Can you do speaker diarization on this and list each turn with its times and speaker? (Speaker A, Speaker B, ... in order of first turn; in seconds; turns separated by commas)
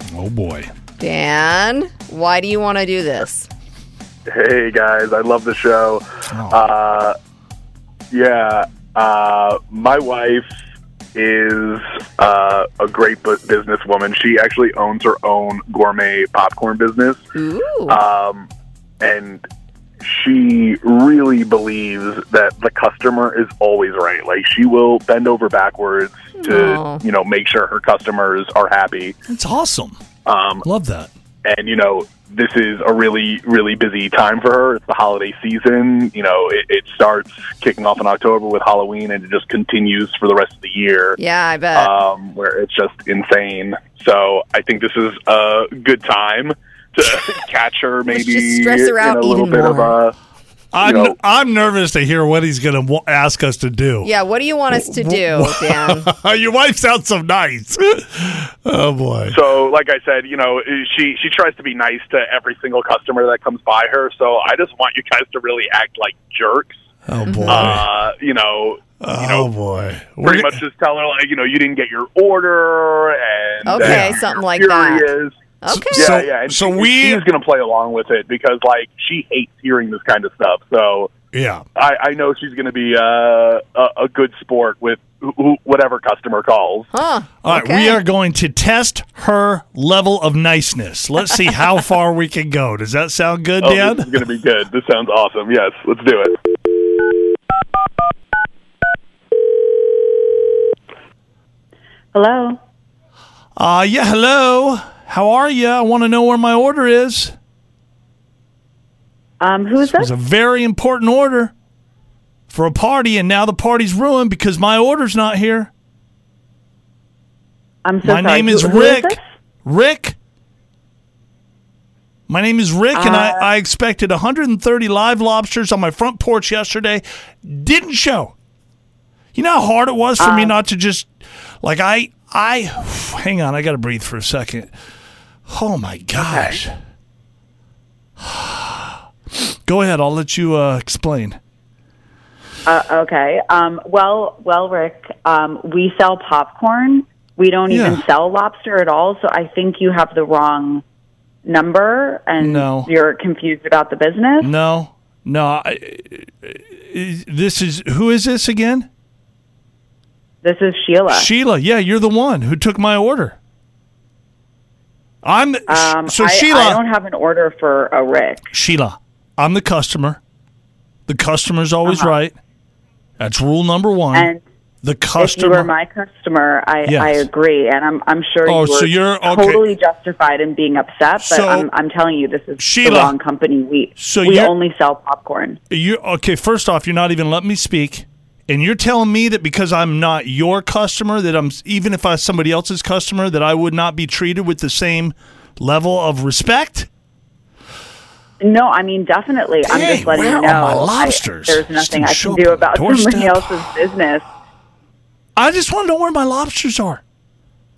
Speaker A: 0.1-0.7, Speaker B: 1.0-3.5, Speaker C: 4.3-7.1, Speaker A: 6.3-6.6, Speaker C: 8.1-10.4, Speaker C: 11.1-17.2, Speaker B: 17.3-18.0, Speaker C: 17.9-18.5, Speaker C: 19.0-19.4, Speaker C: 20.0-29.1, Speaker B: 26.4-27.0, Speaker A: 29.3-30.0, Speaker C: 30.2-30.6, Speaker A: 30.6-31.1, Speaker C: 31.4-41.2, Speaker B: 41.2-41.9, Speaker C: 41.7-50.1, Speaker B: 48.1-50.0, Speaker A: 50.7-54.1, Speaker C: 50.8-51.1, Speaker B: 54.0-56.1, Speaker A: 54.7-59.3, Speaker C: 59.3-66.8, Speaker A: 67.1-67.9, Speaker B: 67.3-67.7, Speaker C: 67.5-69.5, Speaker A: 69.0-70.6, Speaker C: 70.2-75.3, Speaker B: 73.6-76.2, Speaker A: 73.8-74.2, Speaker A: 75.7-77.2, Speaker C: 75.9-81.1, Speaker A: 81.3-81.6, Speaker C: 81.8-86.9, Speaker B: 86.9-88.0, Speaker A: 87.4-94.1, Speaker C: 93.6-96.3, Speaker D: 102.1-102.6, Speaker A: 103.5-107.3, Speaker D: 109.4-110.1, Speaker A: 109.8-111.5, Speaker A: 112.5-115.7, Speaker D: 117.8-119.2, Speaker A: 118.0-120.2, Speaker A: 122.3-128.3, Speaker D: 122.9-123.5, Speaker A: 129.3-134.7, Speaker D: 130.2-130.6, Speaker A: 135.5-136.7, Speaker D: 136.2-136.6, Speaker A: 138.2-138.9, Speaker A: 139.7-141.4, Speaker D: 142.7-150.8, Speaker A: 147.7-148.0, Speaker D: 151.4-154.5, Speaker A: 152.4-152.9, Speaker A: 154.4-158.9, Speaker D: 160.4-161.3, Speaker A: 161.1-163.4, Speaker A: 165.2-166.8, Speaker D: 165.7-168.5, Speaker A: 168.5-170.2, Speaker A: 171.1-172.4, Speaker D: 171.8-172.2, Speaker A: 173.2-174.3, Speaker D: 174.1-174.4, Speaker A: 174.8-175.7, Speaker D: 175.2-185.6, Speaker A: 176.8-177.3, Speaker A: 178.4-179.7, Speaker A: 181.2-181.7, Speaker A: 182.6-183.1, Speaker A: 184.0-184.5, Speaker A: 185.7-196.9, Speaker D: 198.4-204.2, Speaker A: 199.6-203.6, Speaker A: 205.3-207.0